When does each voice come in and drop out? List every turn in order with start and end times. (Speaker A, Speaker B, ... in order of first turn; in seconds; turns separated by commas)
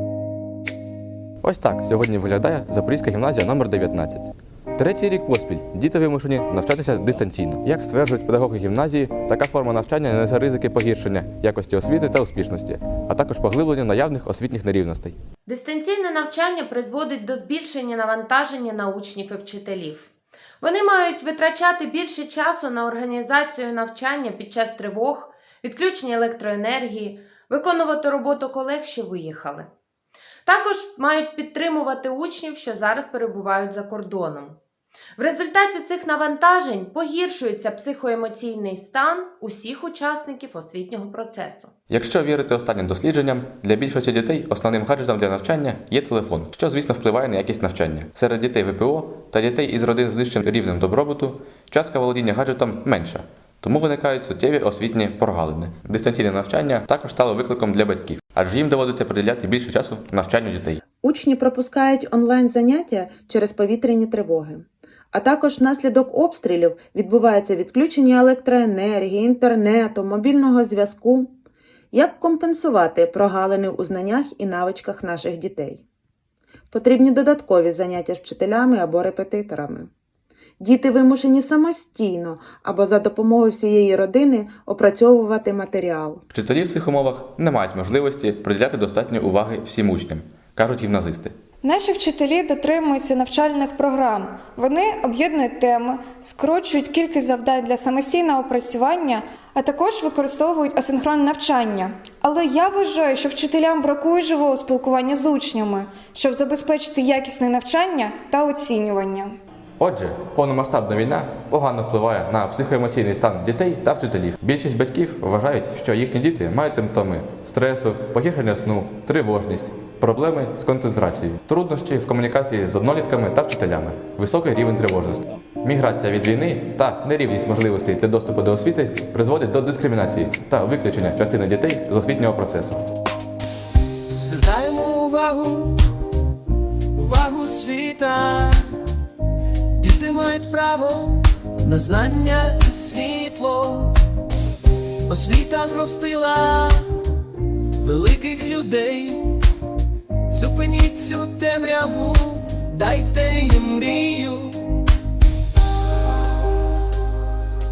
Speaker A: 1.4-15.2, Speaker B: 15.4-20.1, Speaker B: 20.6-29.7, Speaker B: 30.4-34.6, Speaker B: 35.2-41.7, Speaker A: 41.9-60.8, Speaker C: 61.0-71.3, Speaker C: 71.9-75.8, Speaker C: 76.7-79.9, Speaker C: 80.6-86.2, Speaker A: 86.3-91.3, Speaker D: 91.6-109.3, Speaker A: 109.8-132.8, Speaker E: 134.1-135.8, Speaker E: 136.9-138.7, Speaker E: 139.8-144.0, Speaker E: 145.0-146.9, Speaker E: 147.8-149.3, Speaker E: 150.3-154.7